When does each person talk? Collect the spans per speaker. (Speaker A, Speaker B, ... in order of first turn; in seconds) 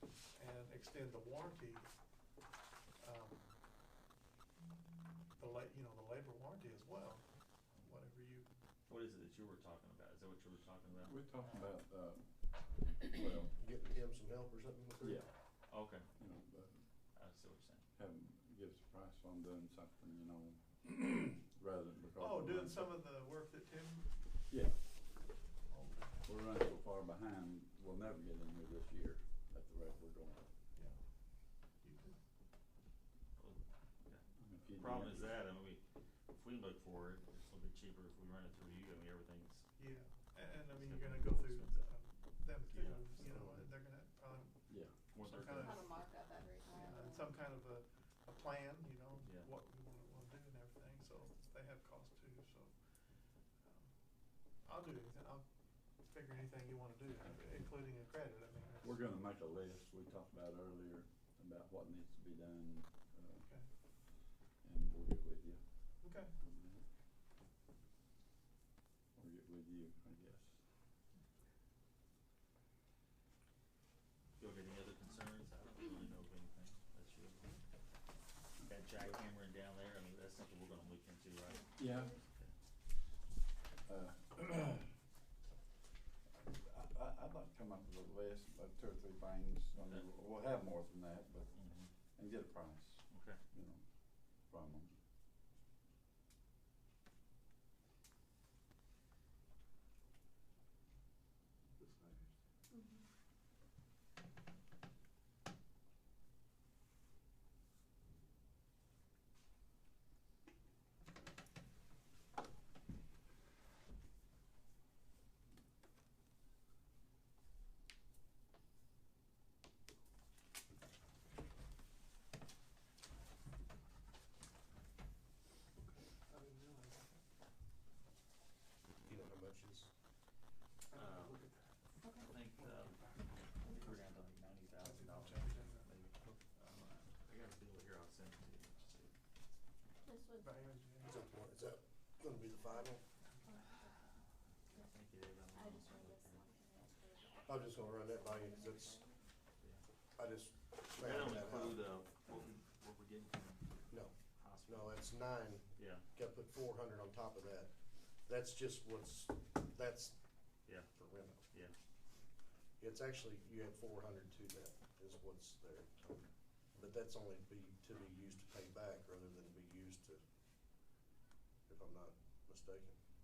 Speaker A: 0.3-1.9, 3.0-3.5, 5.4-8.5, 22.2-24.2, 25.7-26.2, 30.7-31.0, 31.8-32.2, 39.8-46.0, 46.7-52.8, 53.6-53.9, 54.6-55.5, 56.0-59.0, 66.0-66.3, 101.8-102.3, 125.9-127.2, 130.9-131.8, 132.6-133.5, 134.8-136.4, 140.4-141.2, 143.2-143.6
Speaker B: 8.9-11.2, 15.7-16.1, 17.1-17.8, 33.4-39.6, 40.7-41.9, 42.7-43.2, 45.1-45.9, 49.2-49.5, 74.4-77.6, 78.6-82.5, 89.8-90.1, 91.5-91.9, 93.1-93.4, 130.9-131.4, 132.2-139.1, 144.8-146.5, 149.6-149.8, 151.0-155.0, 155.8-156.1, 160.7-160.9, 161.5-161.8
Speaker C: 10.9-13.6, 15.0-15.3, 16.2-16.9, 18.0-23.0, 24.5-24.8, 26.2-30.5, 34.4-35.4, 44.7-44.9, 57.3-57.5, 58.8-63.5, 64.1-66.8, 69.2-70.6, 81.8-82.1, 83.8-84.9, 86.4-91.6, 92.2-95.0
Speaker D: 13.6-15.2, 43.2-43.7, 129.1-129.9, 141.0-143.0, 147.5-149.0, 150.2-151.9, 153.9-160.2, 160.9-161.4, 162.8-170.2, 171.7-173.0
Speaker E: 45.5-47.3, 81.5-82.2, 102.7-103.0, 132.0-132.3, 140.0-140.5, 143.4-144.0, 145.5-149.2